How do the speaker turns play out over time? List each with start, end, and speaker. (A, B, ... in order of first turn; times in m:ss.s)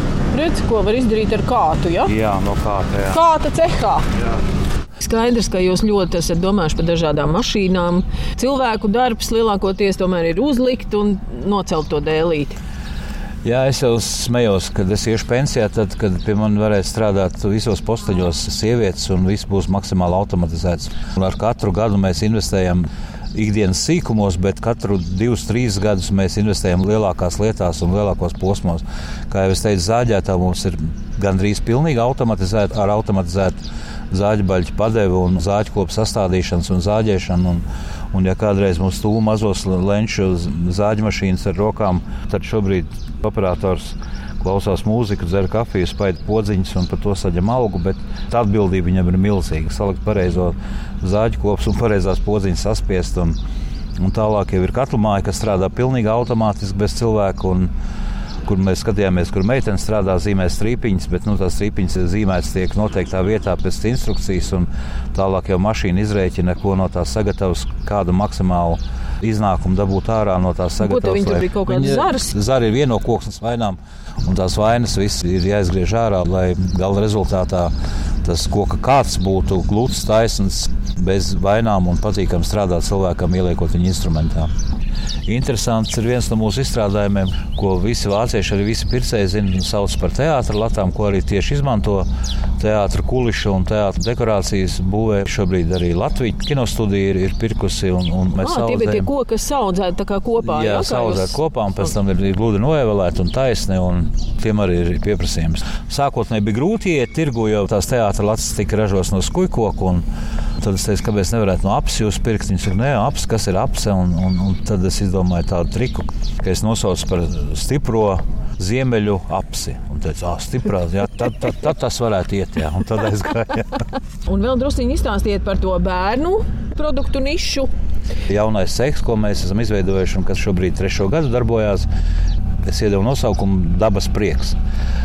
0:00.3-0:02.1 A
0:02.0-0:03.2 B
0:03.1-0:04.0 A
0:05.0-0:12.6 A
0:13.4-0:33.6 B
0:34.1-0:53.4 B
0:54.0-0:57.7 B
0:58.4-1:17.7 B
1:10.8-1:12.3 A
1:18.2-1:24.5 B
1:25.3-1:32.1 B
1:32.6-1:39.1 B
1:38.4-1:41.3 A
1:40.4-1:50.0 B
1:50.6-2:03.7 B
2:04.2-2:07.7 A
2:08.3-2:11.9 B
2:12.6-2:14.6 B